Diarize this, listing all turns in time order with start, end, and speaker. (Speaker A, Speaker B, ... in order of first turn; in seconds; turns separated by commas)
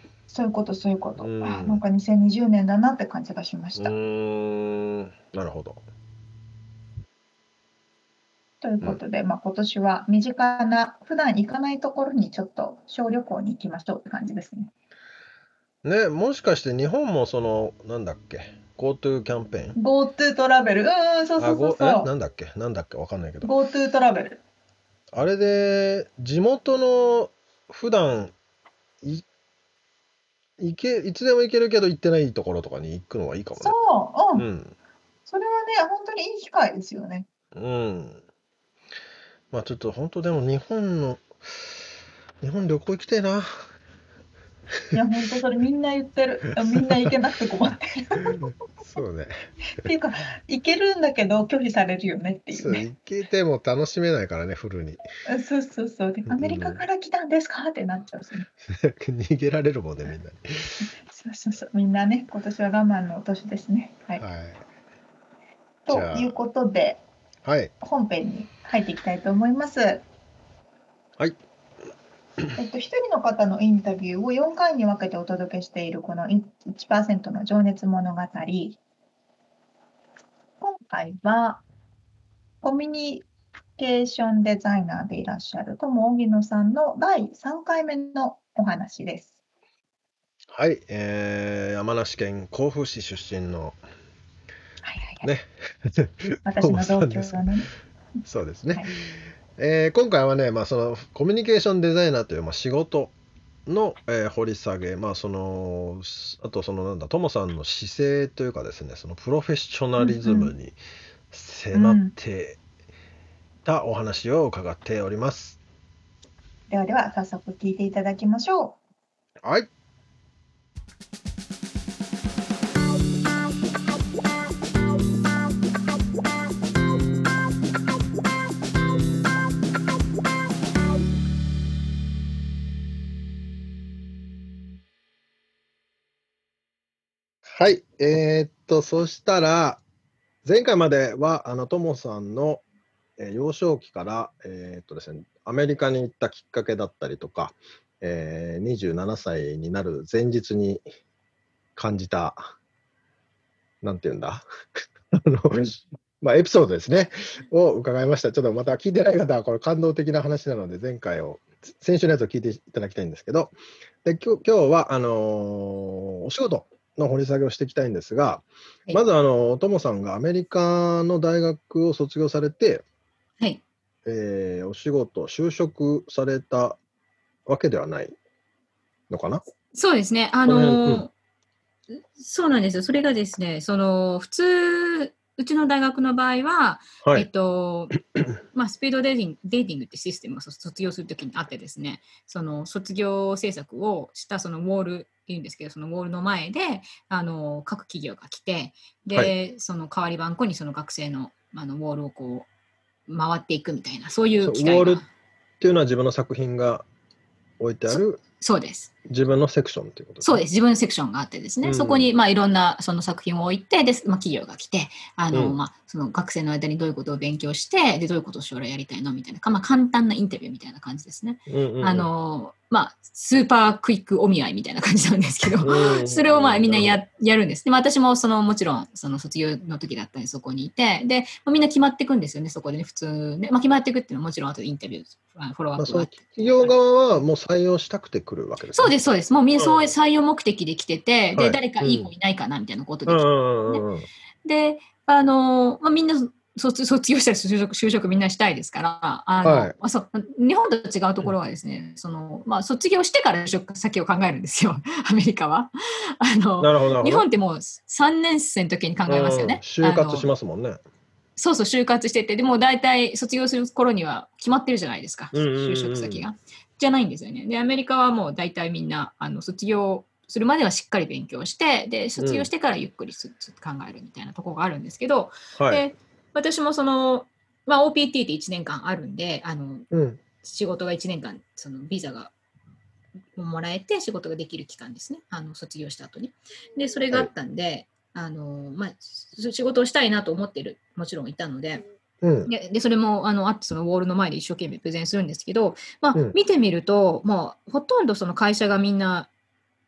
Speaker A: 0.3-3.9, Speaker B: 1.2-1.8, Speaker B: 3.8-5.8, Speaker A: 8.6-14.7, Speaker B: 15.8-19.8, Speaker A: 19.8-22.1, Speaker B: 21.4-23.5, Speaker A: 23.4-24.4, Speaker B: 25.1-28.3, Speaker B: 30.6-33.8, Speaker A: 33.6-34.5, Speaker B: 34.3-34.7, Speaker A: 35.3-37.3, Speaker B: 37.5-38.2, Speaker B: 39.5-41.3, Speaker B: 42.4-43.5, Speaker A: 44.9-48.4, Speaker B: 48.3-49.9, Speaker A: 49.8-52.8, Speaker B: 52.5-55.0, Speaker A: 55.2-58.5, Speaker B: 56.3-56.8, Speaker B: 58.6-60.8, Speaker A: 61.1-64.2, Speaker B: 64.2-64.6, Speaker A: 65.8-67.0, Speaker B: 65.9-66.3, Speaker B: 67.4-67.7, Speaker A: 67.8-70.0, Speaker A: 72.5-78.8, Speaker A: 80.6-81.6, Speaker A: 82.6-83.2, Speaker A: 83.8-89.3, Speaker B: 90.5-93.8, Speaker A: 94.8-95.3, Speaker B: 95.2-97.4, Speaker A: 96.4-97.7, Speaker B: 98.3-99.0, Speaker B: 99.5-103.1, Speaker B: 103.7-110.8, Speaker A: 110.0-110.5, Speaker B: 111.3-112.6, Speaker A: 111.7-112.1, Speaker B: 113.6-115.6, Speaker A: 116.7-118.8, Speaker B: 119.4-119.7, Speaker B: 137.4-139.8, Speaker B: 140.4-142.6, Speaker B: 143.2-150.8, Speaker B: 151.8-152.5, Speaker B: 153.8-154.5, Speaker B: 155.1-172.8, Speaker B: 174.0-176.8, Speaker B: 177.5-178.2, Speaker B: 179.1-179.4, Speaker C: 179.7-181.1, Speaker B: 180.4-181.1, Speaker C: 181.9-188.0, Speaker B: 187.0-187.3, Speaker C: 188.5-202.5, Speaker C: 203.1-205.1, Speaker B: 204.4-205.0, Speaker B: 205.6-206.8, Speaker B: 207.6-208.2, Speaker C: 207.9-208.9, Speaker B: 209.1-210.4, Speaker C: 210.2-236.7, Speaker B: 211.6-212.1, Speaker B: 215.3-215.6, Speaker B: 221.5-222.1, Speaker B: 225.6-227.0, Speaker B: 235.8-239.0, Speaker C: 238.7-243.8, Speaker B: 239.6-239.9, Speaker B: 241.3-242.1, Speaker B: 243.1-244.1, Speaker C: 244.4-260.3, Speaker B: 249.4-249.7, Speaker B: 256.6-257.2, Speaker B: 259.1-260.8, Speaker C: 261.4-279.9, Speaker B: 265.3-266.2, Speaker B: 272.2-272.5, Speaker B: 275.6-275.9, Speaker B: 279.9-280.2, Speaker C: 280.4-282.3, Speaker C: 283.4-291.9, Speaker B: 292.2-292.5, Speaker C: 292.5-299.3